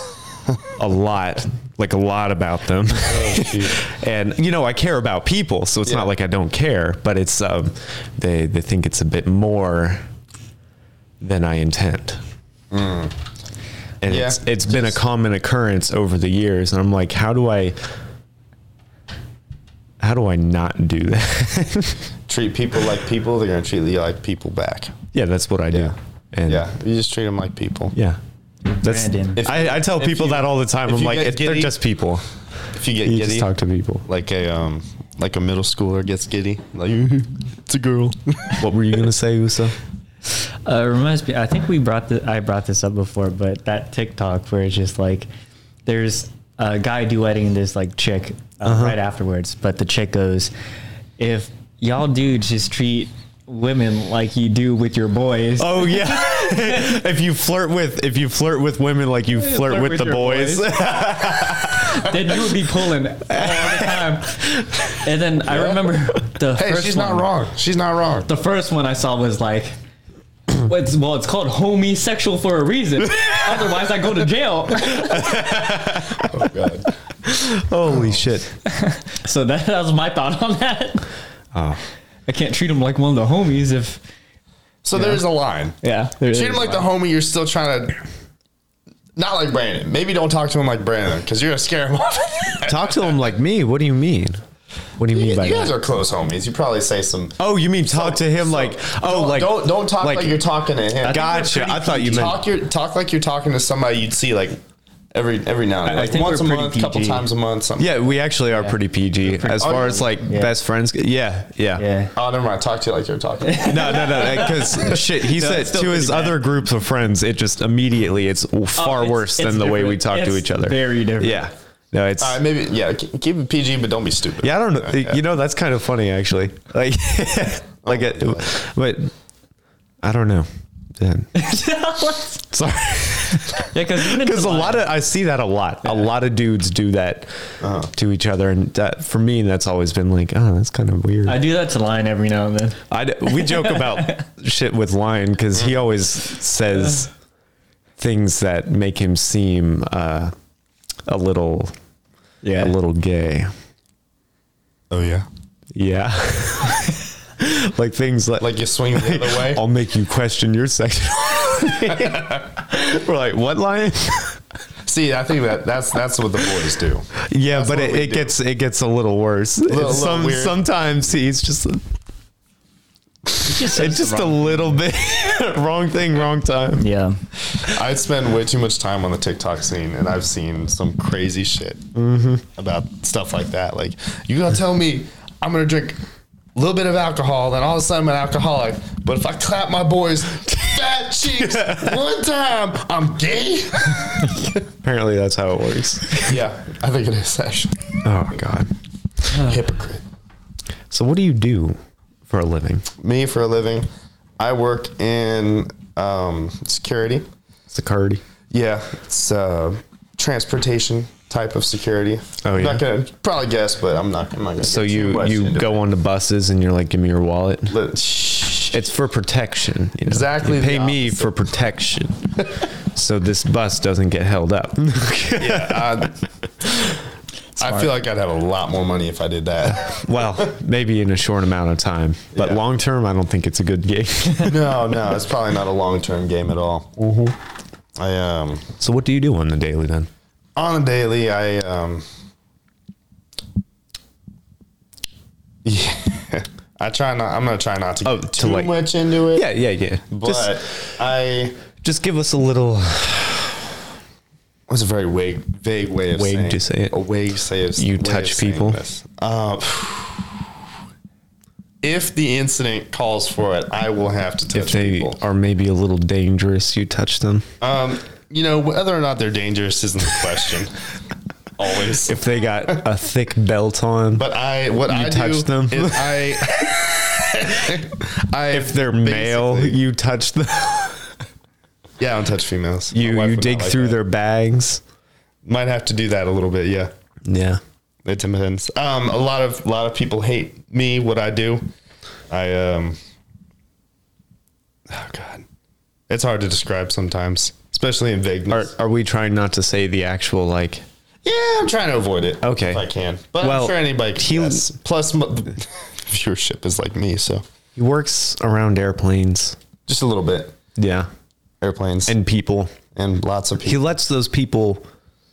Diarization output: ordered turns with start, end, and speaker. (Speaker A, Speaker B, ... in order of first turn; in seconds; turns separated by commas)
Speaker A: 0.8-10.1, Speaker B: 3.1-3.9, Speaker B: 5.8-6.1, Speaker A: 11.2-12.2, Speaker B: 12.7-13.2, Speaker A: 14.0-17.8, Speaker B: 14.1-15.0, Speaker A: 20.0-22.1, Speaker B: 22.3-24.9, Speaker A: 25.1-26.7, Speaker B: 26.5-27.9, Speaker A: 27.9-28.2, Speaker C: 28.8-29.4, Speaker A: 28.8-32.2, Speaker B: 29.4-31.8, Speaker B: 32.7-33.5, Speaker A: 33.0-34.0, Speaker B: 34.1-38.6, Speaker A: 38.6-39.8, Speaker C: 40.3-45.3, Speaker C: 45.9-50.5, Speaker A: 48.6-49.0, Speaker C: 51.2-57.0, Speaker A: 55.6-62.2, Speaker C: 59.4-67.3, Speaker A: 63.2-65.0, Speaker B: 65.5-65.8, Speaker B: 66.5-68.3, Speaker C: 68.3-69.7, Speaker C: 70.5-75.7, Speaker A: 74.9-76.3, Speaker B: 76.2-76.9, Speaker A: 77.2-78.5, Speaker C: 78.7-81.1, Speaker A: 81.5-81.8, Speaker C: 82.3-84.0, Speaker B: 84.8-85.8, Speaker C: 84.9-85.2, Speaker C: 85.8-86.9, Speaker B: 86.3-88.0, Speaker B: 89.2-93.2, Speaker A: 92.6-94.4, Speaker A: 95.0-95.8, Speaker B: 95.1-104.6, Speaker A: 97.4-100.4, Speaker A: 101.0-102.4, Speaker B: 105.1-108.0, Speaker C: 105.8-107.2, Speaker A: 107.8-111.8, Speaker C: 108.5-110.5, Speaker B: 109.6-110.0, Speaker C: 111.8-112.1, Speaker B: 112.2-114.3, Speaker C: 113.4-116.4, Speaker A: 113.6-122.4, Speaker C: 118.8-121.5, Speaker B: 122.2-125.2, Speaker A: 124.4-129.1, Speaker B: 127.8-128.6, Speaker A: 130.0-130.5, Speaker A: 131.0-131.4, Speaker C: 131.3-132.4, Speaker A: 132.5-137.3, Speaker C: 133.3-134.9, Speaker B: 137.6-137.9, Speaker A: 137.9-141.4, Speaker C: 141.3-144.2, Speaker A: 142.9-147.1, Speaker A: 148.0-150.3, Speaker A: 151.1-151.7, Speaker C: 152.4-152.7, Speaker A: 152.6-153.5, Speaker B: 154.9-155.3, Speaker A: 155.8-164.4, Speaker B: 158.4-159.6, Speaker B: 161.9-162.4, Speaker B: 164.9-168.3, Speaker A: 167.2-171.8, Speaker B: 169.7-170.6, Speaker C: 173.4-174.8, Speaker A: 173.4-176.9, Speaker C: 176.8-177.2, Speaker B: 177.6-181.8, Speaker A: 181.9-182.4, Speaker B: 182.6-186.0, Speaker B: 186.6-194.5, Speaker A: 191.5-192.0, Speaker A: 194.8-196.4, Speaker B: 196.2-197.8, Speaker A: 198.0-198.7, Speaker B: 199.3-200.0, Speaker A: 200.9-201.8, Speaker A: 202.3-202.9, Speaker B: 203.0-203.9, Speaker B: 204.4-207.3, Speaker A: 207.7-208.2, Speaker B: 208.5-215.8, Speaker A: 212.4-212.8, Speaker A: 214.6-217.8, Speaker B: 217.7-218.8, Speaker A: 218.7-226.1, Speaker B: 220.1-221.4, Speaker B: 225.4-226.9, Speaker B: 227.6-230.4, Speaker A: 229.7-234.6, Speaker B: 232.3-232.6, Speaker B: 234.4-236.9, Speaker A: 237.0-237.3, Speaker B: 238.0-238.6, Speaker A: 238.8-240.1, Speaker B: 240.6-242.1, Speaker B: 245.6-249.5, Speaker A: 248.1-250.9, Speaker B: 250.1-251.6, Speaker A: 251.8-253.6, Speaker B: 254.7-260.4, Speaker A: 256.1-257.0, Speaker A: 257.8-258.8, Speaker B: 261.8-265.2, Speaker A: 264.5-267.4, Speaker B: 267.6-270.7, Speaker B: 271.6-272.2, Speaker A: 272.1-274.2, Speaker B: 274.1-279.8, Speaker A: 274.9-276.1, Speaker A: 278.5-281.1, Speaker B: 282.0-284.0, Speaker A: 282.9-284.8, Speaker B: 285.4-286.9, Speaker A: 287.3-287.6, Speaker B: 288.1-291.6, Speaker B: 292.3-293.0, Speaker B: 294.9-295.5, Speaker B: 296.1-298.7, Speaker A: 298.5-300.8, Speaker B: 301.2-307.4, Speaker A: 302.4-302.8, Speaker A: 303.4-304.7, Speaker A: 307.8-309.6, Speaker B: 309.9-310.6, Speaker A: 310.8-311.1, Speaker B: 311.6-312.1, Speaker A: 312.1-312.8, Speaker B: 312.9-313.8, Speaker A: 313.6-314.9